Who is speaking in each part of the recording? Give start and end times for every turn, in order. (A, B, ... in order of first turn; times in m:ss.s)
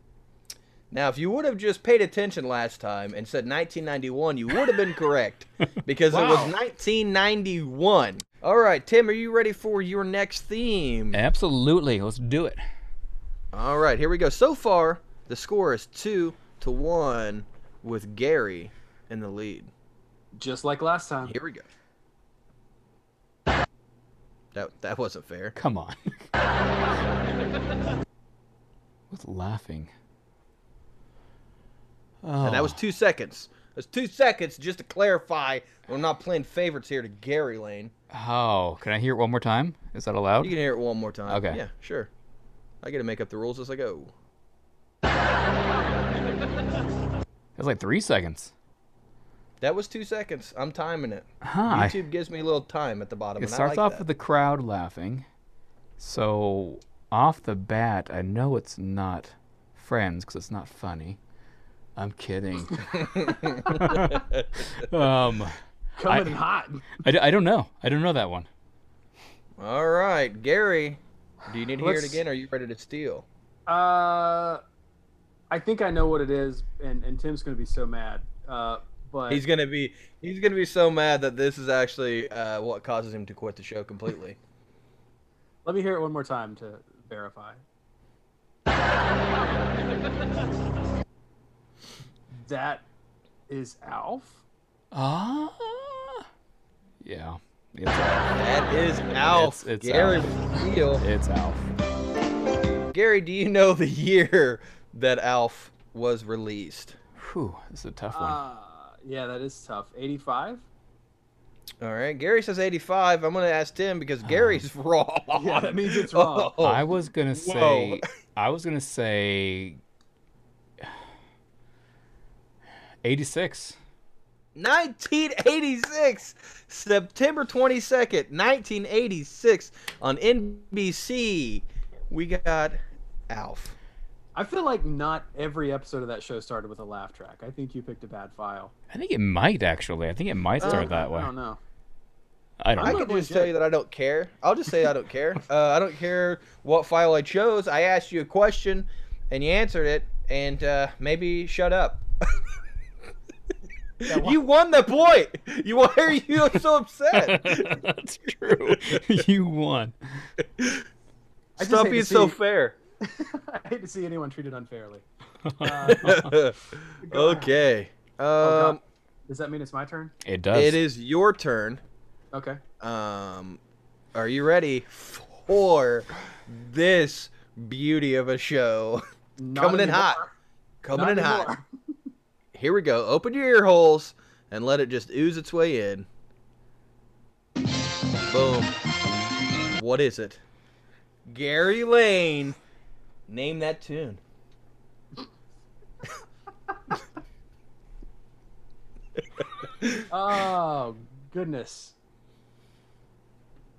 0:00.9-0:11.2 A
0:06.1-0:06.5 B
0:11.1-0:12.6 C
0:13.5-0:19.7 A
0:20.4-0:21.4 B
0:21.3-0:21.7 A
0:24.5-0:25.6 A
0:25.6-0:26.3 C
0:29.1-0:29.9 C
0:32.2-0:32.8 C
0:32.4-0:37.9 A
0:38.1-0:40.6 C
0:40.4-0:42.1 A
0:41.3-0:41.6 C
0:42.8-0:44.1 A
0:47.6-0:48.5 C
0:49.6-0:54.0 A
0:51.4-0:52.0 C
0:53.4-0:55.2 C
0:56.0-1:01.2 C
1:02.0-1:04.2 C
1:02.9-1:04.8 A
1:03.8-1:04.1 B
1:04.8-1:06.4 C
1:06.0-1:07.0 B
1:07.0-1:08.5 C
1:09.6-1:13.2 A
1:11.8-1:12.2 B
1:13.7-1:14.6 B
1:15.5-1:19.4 B
1:19.3-1:24.4 A
1:25.6-1:27.6 B
1:32.3-1:32.8 B
1:33.5-1:34.4 B
1:34.9-1:36.2 C
1:37.0-1:38.3 C
1:38.3-1:41.0 A
1:39.3-1:41.7 C
1:42.9-1:47.0 A
1:47.2-1:48.4 C
1:48.1-1:50.6 B
1:51.8-1:56.8 A
1:54.2-1:54.6 C
1:55.3-1:56.5 B
1:56.6-1:59.8 C
1:57.4-1:58.0 A
2:03.0-2:03.8 C
2:04.5-2:13.8 A
2:14.4-2:18.7 B
2:18.9-2:21.3 C
2:20.6-2:21.6 B
2:20.6-2:20.9 A
2:22.6-2:23.0 C
2:22.8-2:23.5 B
2:22.8-2:32.0 A
2:34.0-2:37.8 A
2:34.1-2:34.4 B
2:37.1-2:39.9 C
2:38.7-2:39.2 A
2:40.4-2:40.8 A
2:41.6-2:42.4 B
2:41.6-2:42.8 A
2:43.0-2:45.0 B
2:45.4-2:46.2 C
2:45.6-2:46.3 B
2:46.0-2:48.8 A
2:47.0-2:47.5 B
2:48.4-2:50.1 B
2:50.2-2:50.8 C
2:50.5-2:51.8 A
2:52.3-2:52.6 B
2:52.8-2:53.6 A
2:54.1-2:59.0 A
2:59.4-3:00.3 B
2:59.6-3:00.2 A
3:00.8-3:01.5 A
3:00.9-3:01.6 B
3:02.5-3:06.1 A
3:08.3-3:08.7 A
3:09.7-3:10.4 A
3:11.3-3:12.6 A
3:13.3-3:14.2 A
3:19.4-3:20.0 A
3:20.1-3:21.9 B